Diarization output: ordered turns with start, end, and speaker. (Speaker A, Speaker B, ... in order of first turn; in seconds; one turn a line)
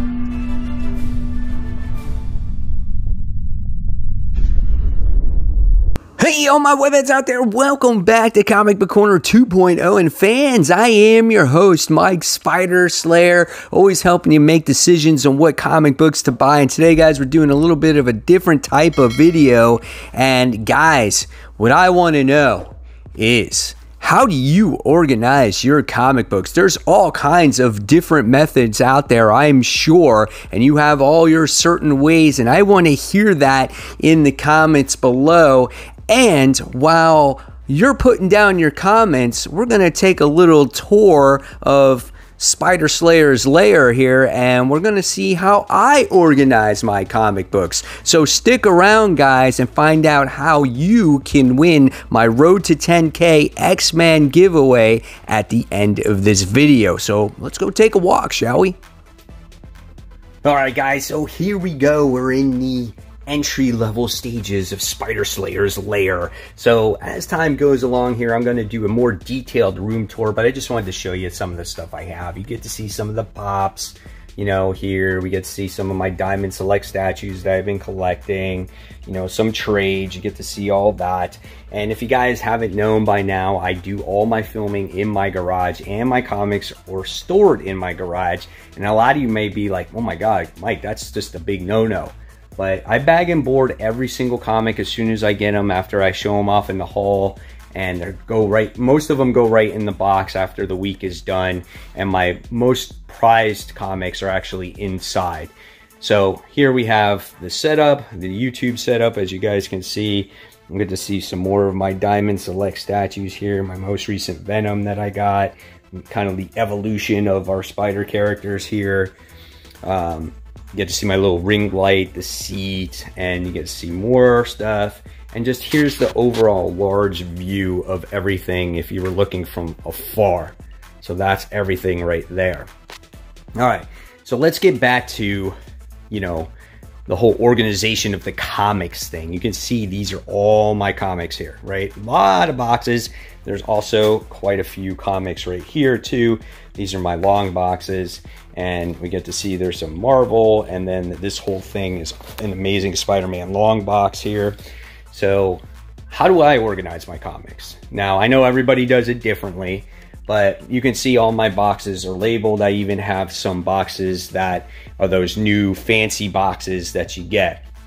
Speaker A: 6.2-58.8
Speaker A: 60.4-119.2
Speaker A: 119.8-132.7
Speaker A: 133.6-135.6
Speaker A: 136.1-136.5
Speaker A: 137.1-154.6
Speaker A: 155.1-167.7